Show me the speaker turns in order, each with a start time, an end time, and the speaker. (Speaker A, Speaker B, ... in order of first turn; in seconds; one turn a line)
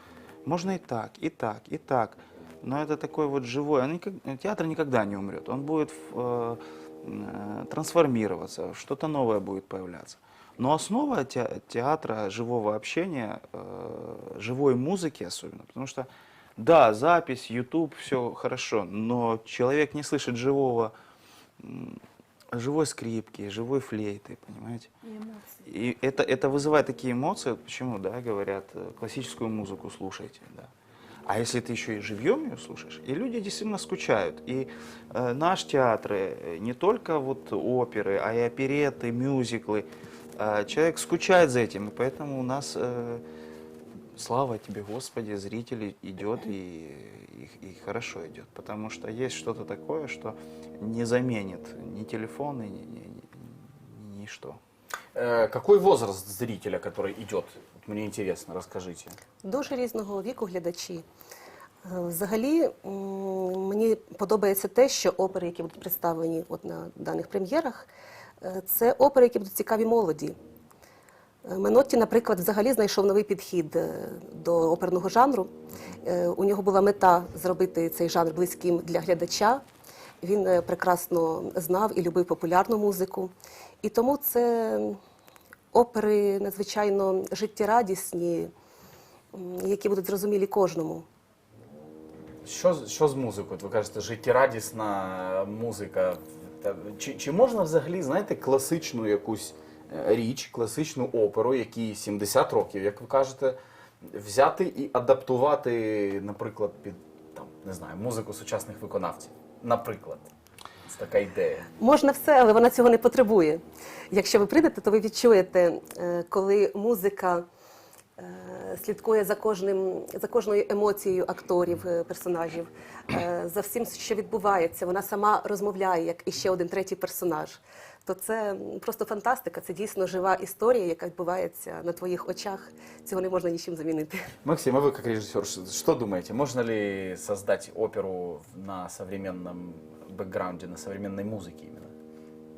Speaker A: 0.5-20.9
Speaker A: 21.6-22.0
Speaker A: 22.5-24.9
Speaker A: 25.6-30.7
Speaker A: 31.3-43.2
Speaker A: 44.1-54.6
Speaker B: 55.1-59.2
Speaker C: 59.4-61.0
Speaker C: 61.8-67.9
Speaker C: 68.4-70.4
Speaker C: 71.5-75.5
Speaker B: 75.7-76.0
Speaker C: 76.0-79.6
Speaker C: 80.2-85.0
Speaker C: 85.7-88.5
Speaker C: 89.3-91.1
Speaker B: 92.5-110.3
Speaker B: 110.9-111.7
Speaker C: 111.8-117.4
Speaker C: 118.2-134.3
Speaker B: 134.4-141.9